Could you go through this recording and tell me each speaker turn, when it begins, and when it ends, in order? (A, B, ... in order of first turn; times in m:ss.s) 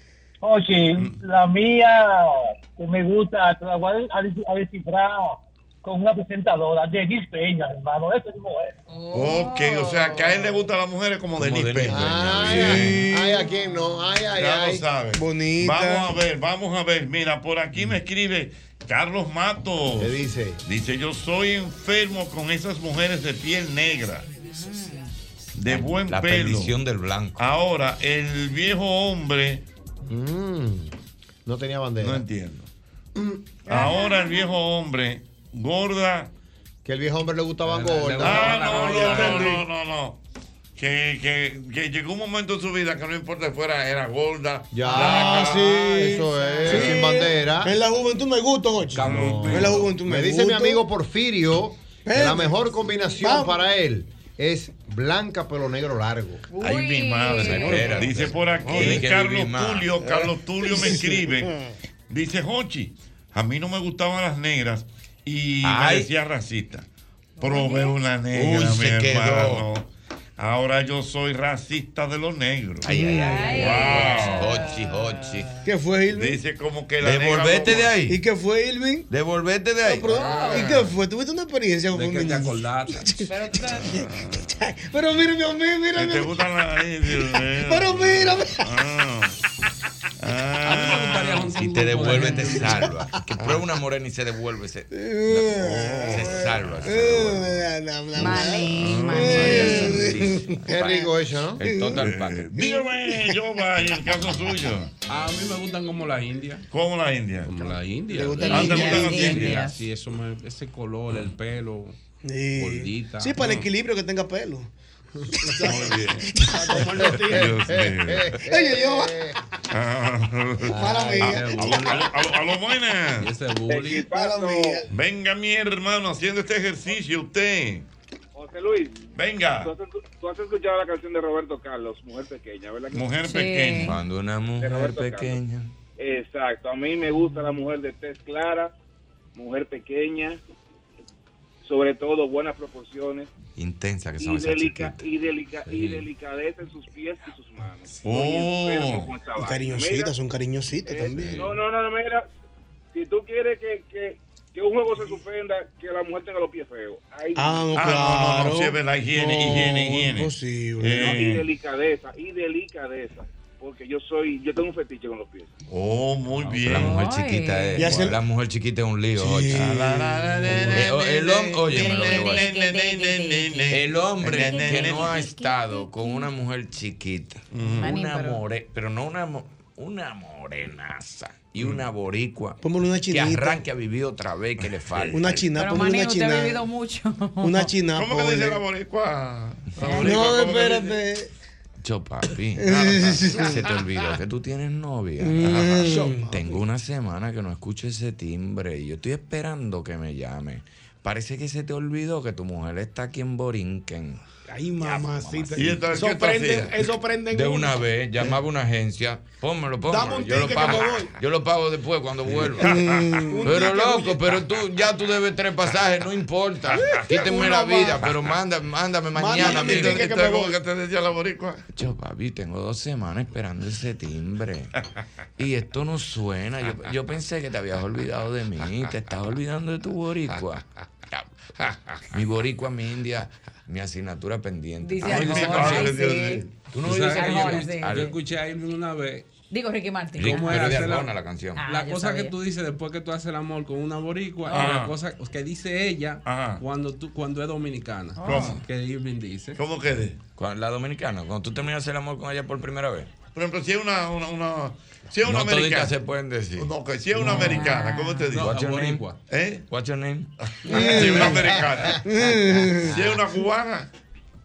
0:00.4-0:08.7 A
0:08.9-0:10.7 B
0:09.1-0:12.8 C
0:11.4-0:13.0 D
0:11.9-0:14.8 E
0:12.6-0:13.4 F
0:14.4-0:24.3 C
0:15.1-0:16.1 F
0:20.0-0:20.6 E
0:24.4-0:25.1 B
0:25.5-0:26.8 C
0:25.7-0:27.4 D
0:27.4-0:29.6 C
0:30.1-0:30.9 E
0:31.4-0:32.2 E
0:32.0-0:32.7 C
0:33.1-0:33.6 E
0:33.7-0:36.3 C
0:33.7-0:34.5 B
0:36.8-0:39.2 E
0:37.6-0:39.5 G
0:38.2-0:40.2 C
0:38.9-0:39.3 F
0:40.8-0:45.7 C
0:44.7-0:47.7 E
0:44.8-0:50.8 F
0:46.3-0:46.8 B
0:48.9-0:49.9 G
0:49.0-0:49.8 C
0:49.0-0:56.4 E
0:52.0-0:52.5 F
0:53.2-0:53.6 F
0:56.5-0:58.1 B
0:56.6-1:01.5 C
0:56.6-0:59.9 D
0:58.6-0:59.0 F
1:00.0-1:01.5 F
1:02.1-1:06.8 C
1:05.6-1:06.1 D
1:07.4-1:08.0 B
1:07.4-1:12.9 C
1:08.3-1:09.7 D
1:12.8-1:15.5 D
1:12.9-1:13.8 F
1:13.2-1:15.6 B
1:13.6-1:14.5 C
1:15.6-1:16.4 F
1:16.1-1:17.9 C
1:17.0-1:18.2 D
1:18.1-1:19.1 F
1:19.1-1:20.8 D
1:19.8-1:26.3 F
1:20.1-1:20.8 B
1:21.9-1:23.0 G
1:23.2-1:23.9 B
1:23.9-1:24.4 C
1:25.9-1:29.4 C
1:27.6-1:28.6 F
1:30.2-1:31.7 C
1:30.6-1:32.8 G
1:31.5-1:37.6 D
1:32.6-1:32.9 F
1:34.9-1:41.1 F
1:35.8-1:36.7 C
1:38.1-1:40.2 B
1:38.8-1:39.7 C
1:39.1-1:40.8 D
1:40.7-1:41.6 E
1:41.6-1:42.5 D
1:41.6-1:42.0 F
1:42.0-1:44.9 C
1:42.6-1:43.3 F
1:45.1-1:46.6 G
1:46.7-1:47.7 C
1:47.4-1:52.0 G
1:48.1-1:49.5 F
1:48.4-1:49.8 B
1:48.5-1:49.5 C
1:52.2-1:54.7 F
1:52.6-1:53.3 G
1:53.4-1:53.7 C
1:55.4-1:55.8 F
1:55.4-1:57.6 H
1:55.6-1:56.3 C
1:56.3-1:56.9 F
1:57.3-1:58.4 C
1:57.3-1:59.4 E
1:58.5-1:59.2 F
1:59.7-2:03.3 C
2:00.7-2:01.9 F
2:00.7-2:01.2 E
2:01.2-2:02.1 G
2:03.2-2:04.1 G
2:03.7-2:04.8 I
2:03.9-2:04.9 F
2:04.9-2:07.8 C
2:08.3-2:09.0 I
2:09.2-2:09.7 C
2:09.6-2:13.2 I
2:12.9-2:14.0 C
2:13.2-2:14.0 B
2:13.8-2:15.7 D
2:14.6-2:15.4 I
2:16.0-2:18.7 I
2:19.3-2:20.4 I
2:21.6-2:23.3 I
2:23.6-2:25.0 D
2:24.2-2:30.1 I
2:25.6-2:26.0 D
2:28.0-2:29.1 C
2:29.4-2:31.5 F
2:30.8-2:32.3 I
2:31.1-2:31.5 D
2:32.9-2:37.6 I
2:37.3-2:41.2 F
2:37.7-2:41.5 C
2:41.0-2:45.5 I
2:45.7-2:47.0 C
2:46.3-2:46.7 G
2:46.6-2:50.0 D
2:46.7-2:48.0 B
2:47.8-2:48.2 F
2:49.2-2:50.8 F
2:49.6-2:55.2 C
2:50.7-2:52.5 D
2:50.8-2:56.3 B
2:53.7-3:05.4 D
2:57.5-2:57.9 C
2:57.6-2:58.4 B
3:02.6-3:03.6 F
3:05.1-3:06.6 F
3:05.5-3:07.7 B
3:07.4-3:08.6 F
3:07.9-3:11.0 C
3:09.8-3:10.2 B
3:09.9-3:11.3 F
3:11.8-3:24.2 D
3:12.6-3:13.6 F
3:15.2-3:16.4 F
3:15.9-3:16.2 H
3:24.5-3:27.8 H
3:24.8-3:25.7 D
3:25.6-3:26.8 C
3:27.3-3:32.9 D
3:29.9-3:31.1 H
3:32.6-3:33.5 F
3:33.3-3:34.2 H
3:33.4-3:40.1 D
3:37.2-3:38.0 H
3:39.2-3:40.6 H
3:39.4-3:41.6 C
3:41.7-3:44.7 D
3:45.4-3:51.2 D
3:52.1-3:56.0 D
3:54.8-3:56.4 B
3:55.0-3:56.4 C
3:56.7-3:58.1 D
3:56.8-3:59.3 G
3:57.1-3:58.2 B
3:59.5-4:00.7 B
4:00.2-4:01.6 D
4:00.2-4:01.1 G
4:01.6-4:02.4 B
4:01.6-4:09.6 G
4:04.5-4:05.0 C
4:06.2-4:06.6 C
4:08.2-4:08.6 B
4:08.2-4:08.6 C
4:09.6-4:10.2 C
4:10.4-4:13.1 D
4:13.3-4:15.9 C
4:15.2-4:16.7 D
4:16.6-4:18.6 C
4:17.2-4:18.3 B
4:17.2-4:17.5 F
4:18.3-4:19.0 D
4:18.3-4:19.2 G
4:19.3-4:19.6 C
4:19.7-4:20.3 D
4:20.5-4:22.0 C
4:20.7-4:22.9 F
4:22.8-4:23.9 C